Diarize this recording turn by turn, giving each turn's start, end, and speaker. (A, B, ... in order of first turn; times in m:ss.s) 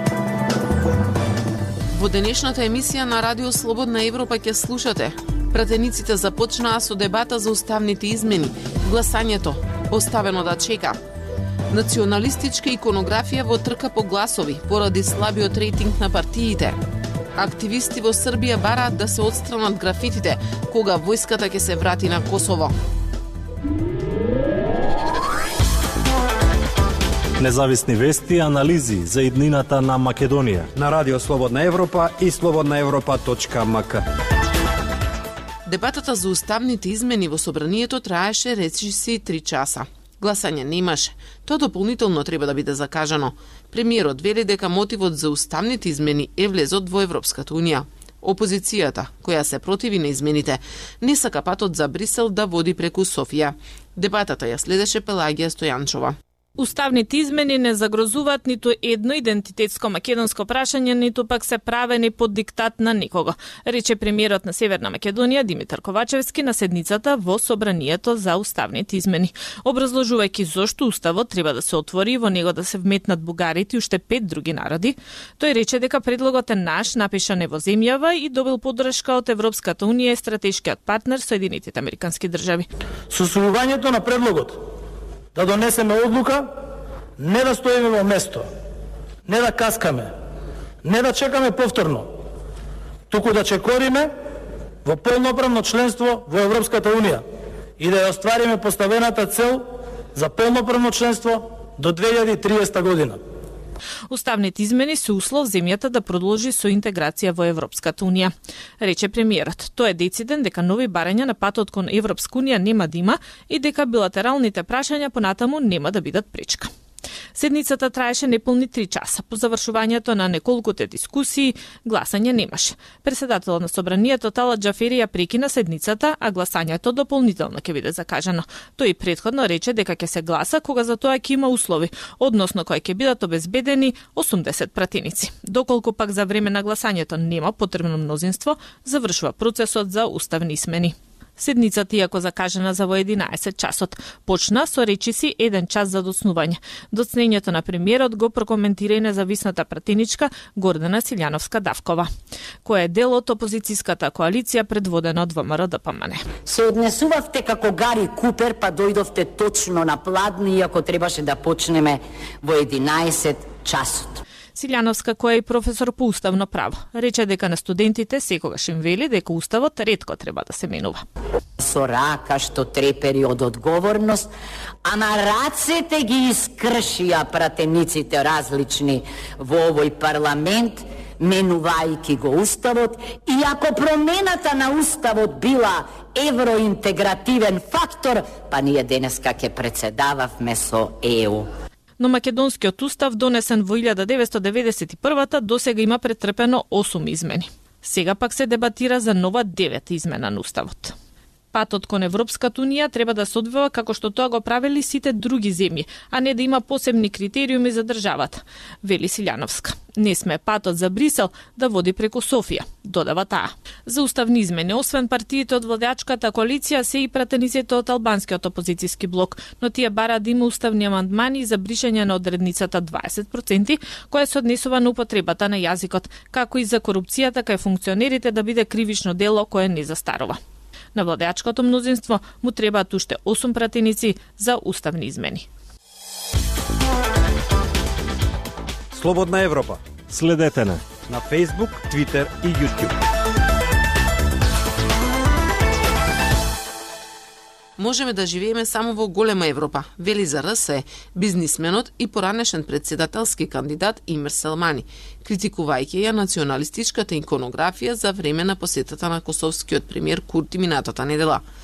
0:01.9-0:11.0 A
0:11.7-0:16.8 A
0:17.3-0:22.7 A
0:27.4-0:30.7 B
0:30.7-0:34.0 C
0:35.6-0:56.2 A
0:56.6-1:22.7 D
1:23.1-1:24.6 E
1:25.3-1:26.5 E
1:27.2-1:28.4 E
1:29.2-1:30.1 E
1:30.8-1:32.0 E
1:33.1-1:34.1 E
1:34.8-1:37.2 E
1:37.8-1:39.6 E
1:40.1-1:43.2 E
1:44.1-1:56.7 D
1:57.3-2:32.1 D
2:32.6-2:36.2 D
2:36.4-2:44.2 F
2:44.5-2:51.0 D
2:51.6-2:54.3 F
2:54.8-3:11.5 F
3:12.0-3:20.9 D
3:21.5-3:50.4 D
3:50.9-3:55.5 D
3:58.9-3:59.8 C
4:00.1-4:00.8 B
4:01.1-4:02.9 C
4:07.8-4:21.4 A